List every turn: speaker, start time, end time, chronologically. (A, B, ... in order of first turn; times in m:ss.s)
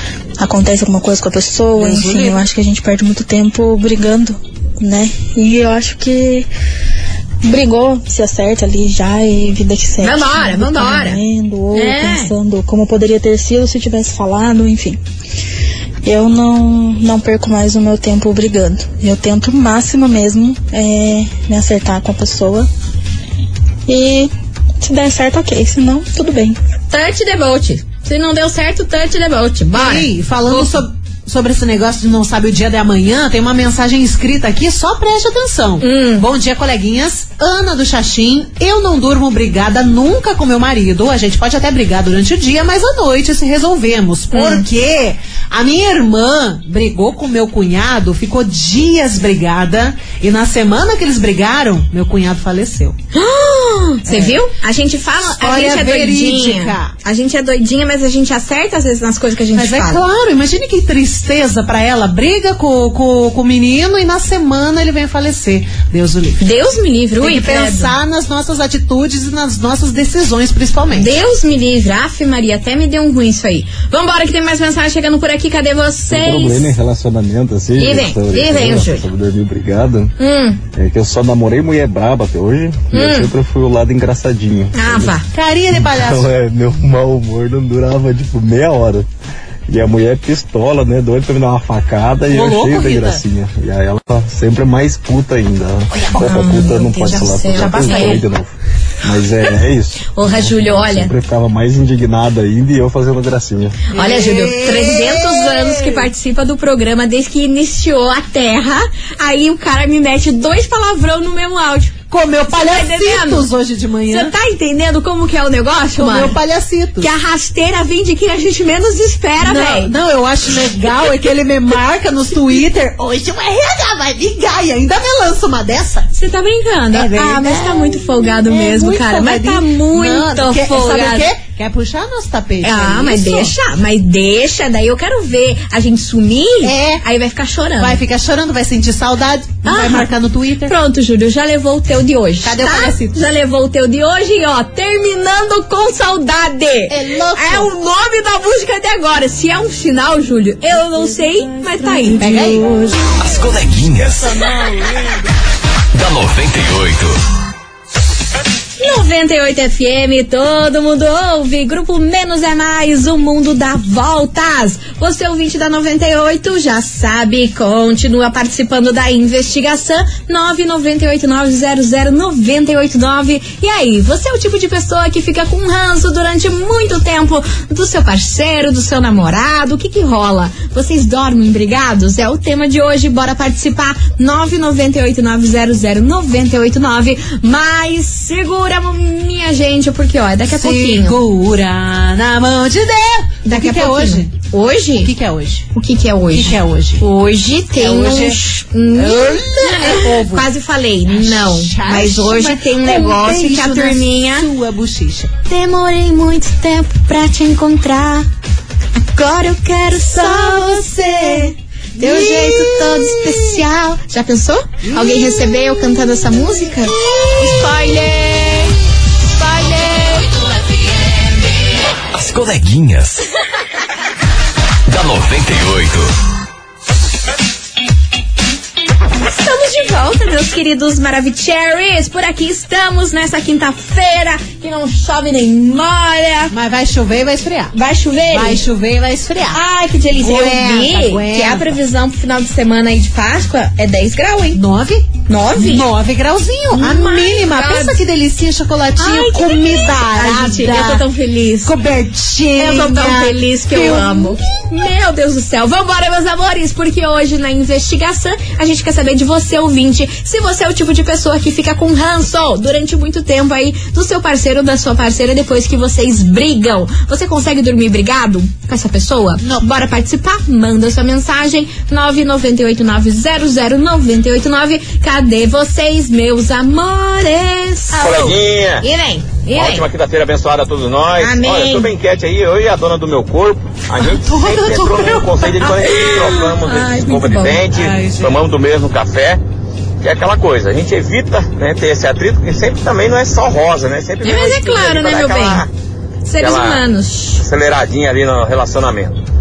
0:00.4-0:06.5 A
0:01.8-0:02.4 B
0:07.4-0:15.0 A
0:10.0-0:11.2 C
0:11.7-0:12.3 C
0:16.0-0:22.7 A
0:23.9-0:26.6 A
0:26.9-0:30.8 C
0:29.7-0:53.0 B
0:35.8-0:36.2 C
0:44.3-0:44.7 C
0:53.1-1:00.0 C
0:54.1-0:54.4 B
0:55.2-0:56.9 B
0:59.5-1:06.4 B
1:06.4-1:07.9 C
1:07.2-1:11.2 B
1:10.9-1:16.8 C
1:16.1-1:20.2 D
1:17.8-1:19.1 C
1:20.2-1:20.6 C
1:20.7-1:25.2 D
1:22.9-1:23.3 C
1:24.7-1:25.2 C
1:25.3-1:26.3 B
1:25.7-1:29.1 D
1:29.7-1:43.8 D
1:32.3-1:33.2 B
1:35.9-1:36.4 B
1:36.2-1:38.2 C
1:37.5-1:38.2 B
1:40.1-1:41.1 C
1:43.9-1:51.9 C
1:43.9-1:46.1 B
1:52.1-1:54.3 B
1:52.5-1:53.5 C
1:54.1-1:56.4 C
1:56.0-1:57.1 B
1:57.0-1:59.9 C
1:59.4-2:06.1 B
2:06.1-2:11.3 C
2:06.9-2:13.5 B
2:12.6-2:18.0 C
2:16.6-2:17.0 B
2:17.8-2:20.7 B
2:19.6-2:20.1 C
2:20.6-2:32.5 C
2:22.4-2:23.3 B
2:26.9-2:27.7 B
2:32.1-2:33.0 B
2:33.2-2:34.4 E
2:35.9-2:37.2 E
2:38.8-3:11.2 C
3:10.5-3:14.4 B
3:13.4-3:15.1 C
3:15.0-3:15.7 B
3:15.7-3:24.5 C
3:16.3-3:17.0 B
3:17.7-3:18.4 B
3:18.9-3:20.5 B
3:21.1-3:25.3 B
3:25.5-3:28.3 C
3:29.0-3:38.8 C
3:30.1-3:33.4 B
3:34.8-3:35.6 B
3:39.4-3:40.4 C
3:42.1-3:43.2 E
3:44.9-3:46.1 E
3:49.3-3:56.5 C
3:56.5-3:57.7 B
3:57.7-3:58.6 C
3:58.3-3:59.6 B
3:59.5-4:04.6 C
4:00.2-4:01.7 B
4:04.5-4:11.1 B
4:05.3-4:05.9 C
4:06.7-4:08.0 C
4:09.0-4:11.7 C
4:11.6-4:14.6 B
4:12.6-4:39.9 C
4:29.4-4:29.7 B
4:38.0-4:38.8 F
4:39.5-4:49.4 F
4:41.2-4:41.9 C
4:44.0-4:46.3 B
4:45.8-4:47.6 C
4:47.7-4:48.4 B
4:50.0-4:55.7 F
4:54.2-4:55.7 C
4:56.2-4:57.4 C
4:56.4-4:56.8 F
4:57.4-4:59.2 F